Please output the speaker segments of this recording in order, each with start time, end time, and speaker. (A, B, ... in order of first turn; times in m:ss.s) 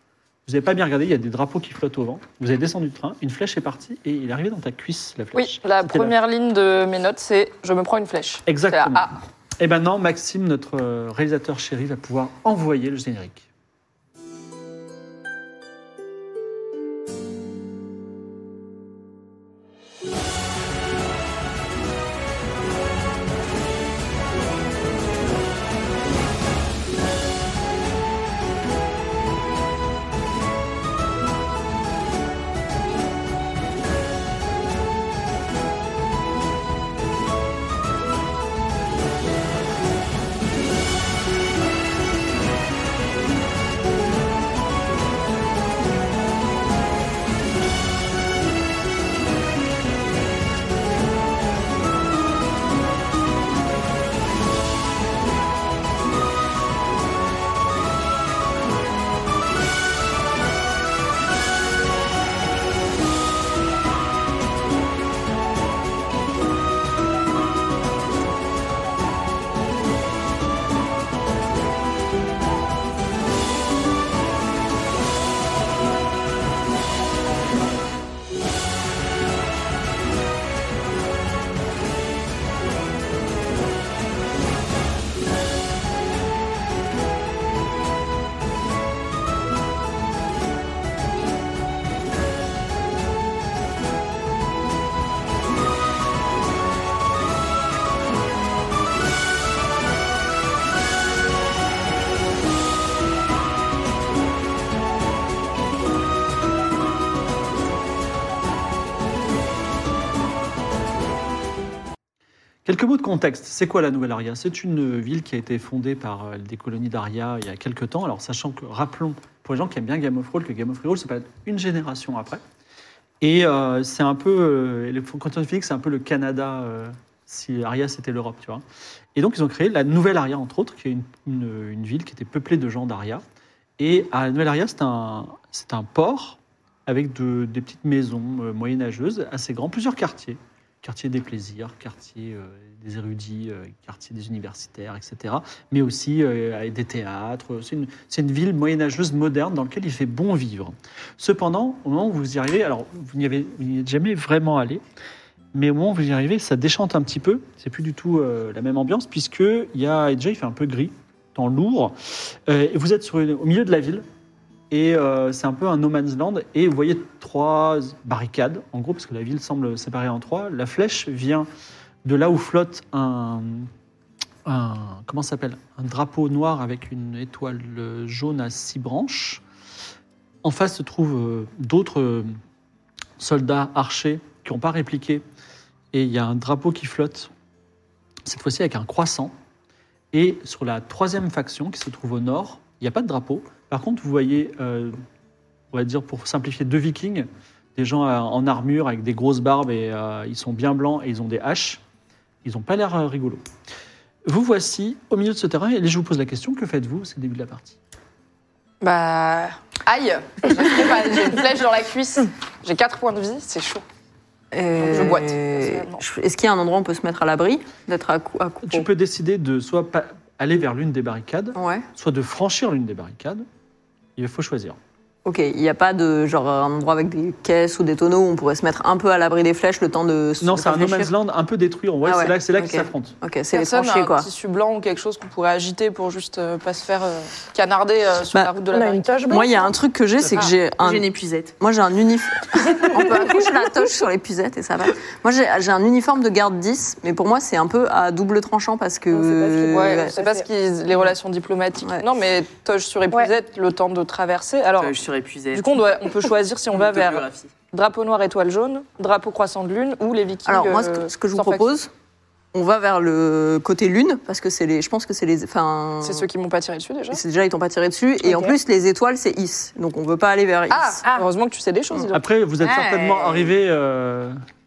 0:00.4-0:06.1 A
0:05.3-0:09.1 B
0:08.5-0:13.5 A
1:52.6-2:02.4 A
2:03.2-2:08.6 A
2:09.1-2:13.2 A
2:13.8-2:34.8 A
2:35.5-2:44.0 A
2:44.7-2:51.5 A
2:52.0-2:53.7 A
2:54.4-2:59.4 A
3:00.4-3:02.3 A
3:03.2-3:05.2 A
3:05.9-3:07.3 A
3:08.2-3:09.3 A
3:10.1-3:15.0 A
3:15.7-3:21.8 A
3:22.4-3:23.4 A
3:24.2-3:27.8 A
3:28.8-3:33.8 B
3:34.5-3:38.9 C
3:34.8-3:36.0 B
3:38.6-3:43.4 A
3:41.5-3:41.8 C
3:44.2-3:44.8 A
3:45.2-3:51.1 C
3:50.4-3:53.1 A
3:52.0-3:54.3 C
3:53.5-3:59.1 B
3:58.7-3:59.8 D
3:59.3-4:01.0 C
4:00.8-4:01.5 E
4:01.6-4:10.1 C
4:02.9-4:03.3 D
4:09.1-4:10.4 D
4:09.7-4:14.9 B
4:14.8-4:15.8 E
4:15.5-4:21.7 B
4:16.7-4:17.5 E
4:20.4-4:21.9 C
4:22.5-4:26.3 C
4:26.0-4:27.2 B
4:27.1-4:31.0 C
4:28.2-4:28.5 D
4:30.7-4:32.2 B
4:32.1-4:34.4 A
4:32.6-4:33.5 E